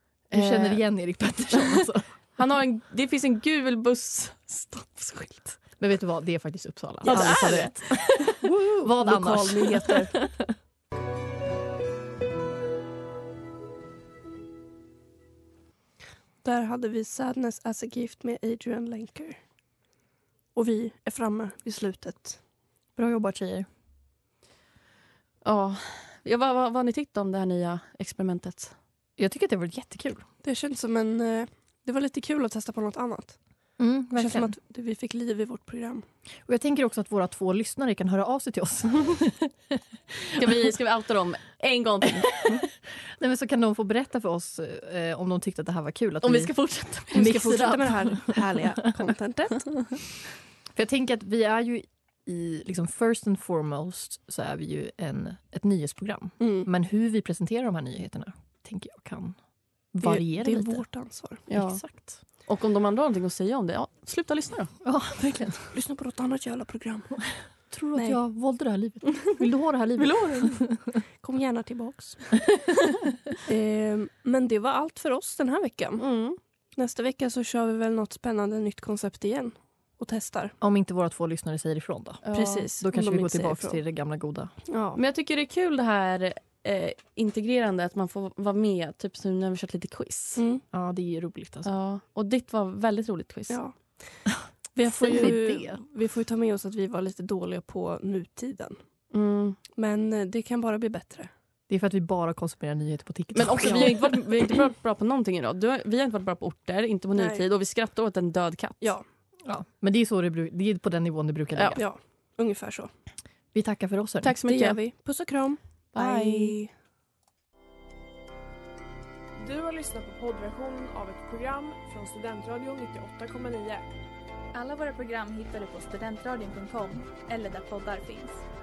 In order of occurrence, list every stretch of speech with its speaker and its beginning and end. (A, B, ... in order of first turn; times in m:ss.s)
0:00.3-0:00.8 A
0:00.3-0:02.1 B
0:02.4-0:05.6 A
0:05.8-0:10.4 B
0:07.0-0:10.0 C
0:07.1-0:08.0 A
0:09.6-0:10.1 A
0:16.4-0:19.4 C
0:20.6-0:22.4 C
0:23.0-0:23.7 B
0:25.4-0:28.8 A
0:29.2-0:30.3 B
0:30.4-0:33.4 C
0:33.8-0:34.5 B
0:34.2-0:36.0 C
0:36.5-0:40.7 B
0:40.4-0:42.7 A
0:43.0-0:46.5 B
0:46.2-0:47.6 A
0:47.1-0:48.4 B
0:47.1-0:50.0 C
0:50.7-0:59.4 B
0:56.4-0:56.7 C
0:59.9-1:00.9 B
1:00.0-1:01.5 C
1:01.5-1:04.7 A
1:01.5-1:02.2 B
1:04.8-1:05.7 B
1:05.7-1:07.2 C
1:07.2-1:10.8 B
1:10.0-1:10.6 A
1:11.2-1:12.4 C
1:13.4-1:16.1 C
1:16.0-1:16.4 A
1:16.8-1:20.6 C
1:20.6-1:22.2 B
1:22.2-1:22.7 A
1:22.3-1:23.8 C
1:22.8-1:24.5 B
1:24.7-1:25.0 C
1:25.0-1:30.4 A
1:30.4-1:30.6 C
1:30.7-1:31.7 B
1:31.6-1:33.6 A
1:33.5-1:38.8 C
1:34.9-1:35.8 B
1:39.1-1:39.6 A
1:39.8-1:41.3 C
1:41.7-1:44.2 B
1:43.4-1:49.0 A
1:43.6-1:44.0 C
1:47.2-1:47.4 C
1:49.4-1:51.8 B
1:51.8-1:52.9 C
1:53.5-1:54.3 B
1:54.2-1:54.8 A
1:54.5-1:56.7 C
1:56.0-1:56.6 A
1:59.4-2:03.8 D
2:04.5-2:08.4 E